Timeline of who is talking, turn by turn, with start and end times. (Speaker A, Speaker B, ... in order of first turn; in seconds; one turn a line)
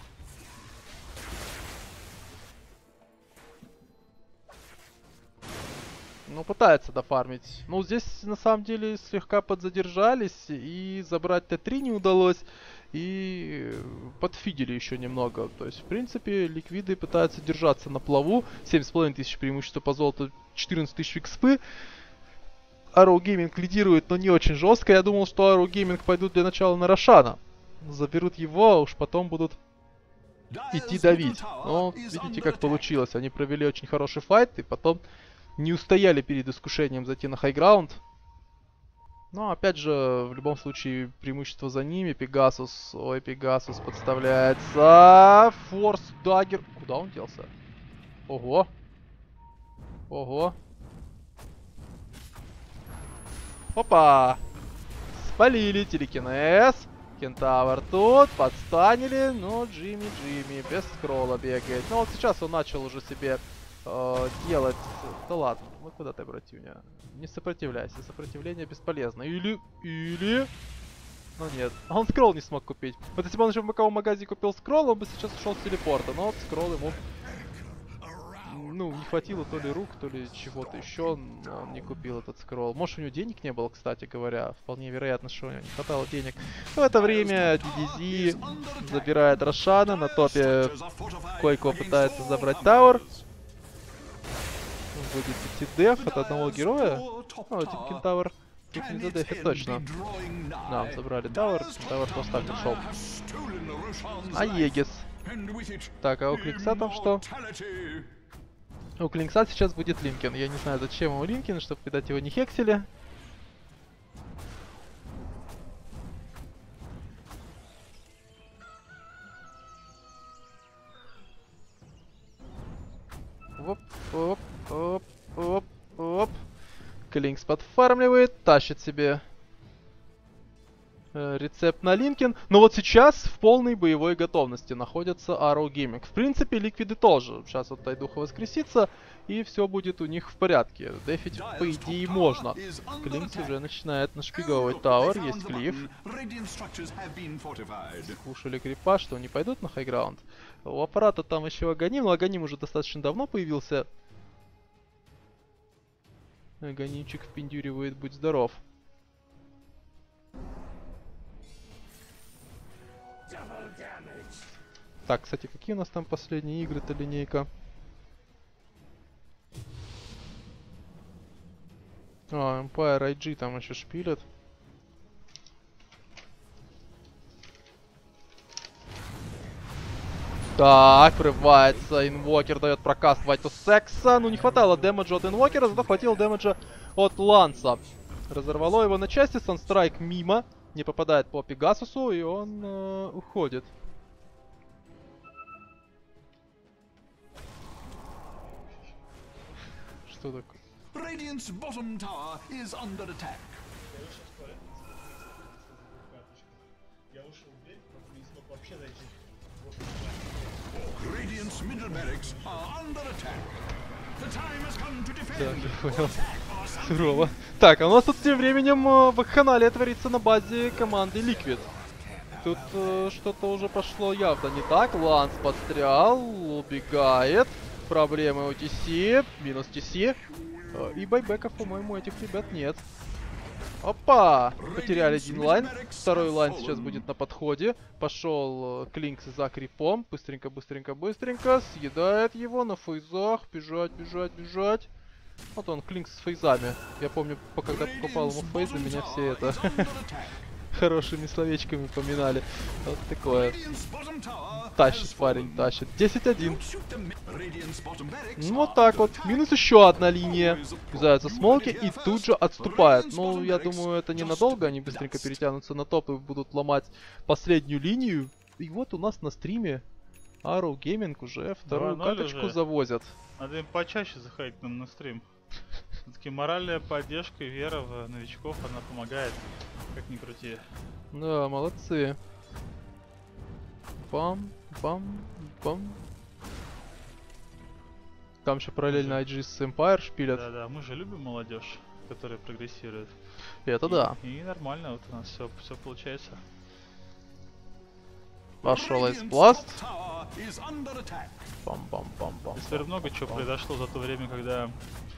Speaker A: 6.3-21.6
Speaker A: 22.9-29.6
Speaker B: 30.5-32.9
Speaker A: 30.7-35.0
Speaker A: 35.6-38.0
Speaker A: 39.3-47.5
Speaker A: 48.3-48.7
Speaker A: 50.1-50.6
Speaker A: 53.8-54.4
Speaker A: 55.1-70.5
Speaker A: 71.4-77.0
Speaker B: 77.2-79.5
Speaker A: 78.4-90.8
Speaker B: 80.5-81.1
Speaker B: 86.9-93.3
Speaker A: 91.3-93.0
Speaker A: 94.9-99.8
Speaker B: 95.9-98.0
Speaker B: 98.7-108.1
Speaker A: 100.7-102.8
Speaker A: 104.3-105.1
Speaker A: 106.0-107.2
Speaker A: 109.0-112.9
Speaker A: 123.6-126.4
Speaker A: 127.1-129.2
Speaker A: 131.1-145.9
Speaker B: 141.3-143.6
Speaker B: 144.3-148.2
Speaker A: 148.0-153.9
Speaker A: 156.6-158.6
Speaker A: 165.1-167.5
Speaker A: 172.3-174.2
Speaker A: 180.6-193.7
Speaker C: 184.4-188.0
Speaker C: 198.1-199.6
Speaker A: 200.1-200.6
Speaker B: 200.9-203.6
Speaker C: 203.9-212.7
Speaker B: 210.7-213.6
Speaker B: 214.2-217.3
Speaker A: 215.3-216.2
Speaker A: 216.8-221.7
Speaker B: 221.6-223.1
Speaker A: 222.4-230.2
Speaker A: 230.7-232.8
Speaker A: 233.8-244.9
Speaker B: 234.6-237.1
Speaker A: 245.6-249.9
Speaker B: 247.7-250.5
Speaker A: 250.7-253.6
Speaker B: 253.2-255.7
Speaker A: 254.6-256.6
Speaker B: 256.4-265.5
Speaker A: 258.4-269.8
Speaker A: 270.4-273.2
Speaker D: 271.7-272.6
Speaker D: 273.4-275.2
Speaker D: 276.1-280.7
Speaker A: 281.1-282.2
Speaker A: 284.0-286.0
Speaker A: 288.4-290.4
Speaker D: 288.9-289.2
Speaker D: 290.3-293.1
Speaker A: 293.7-294.2
Speaker D: 293.8-296.4
Speaker A: 298.6-299.8
Speaker B: 298.6-301.5
Speaker A: 301.6-303.5
Speaker D: 302.6-304.8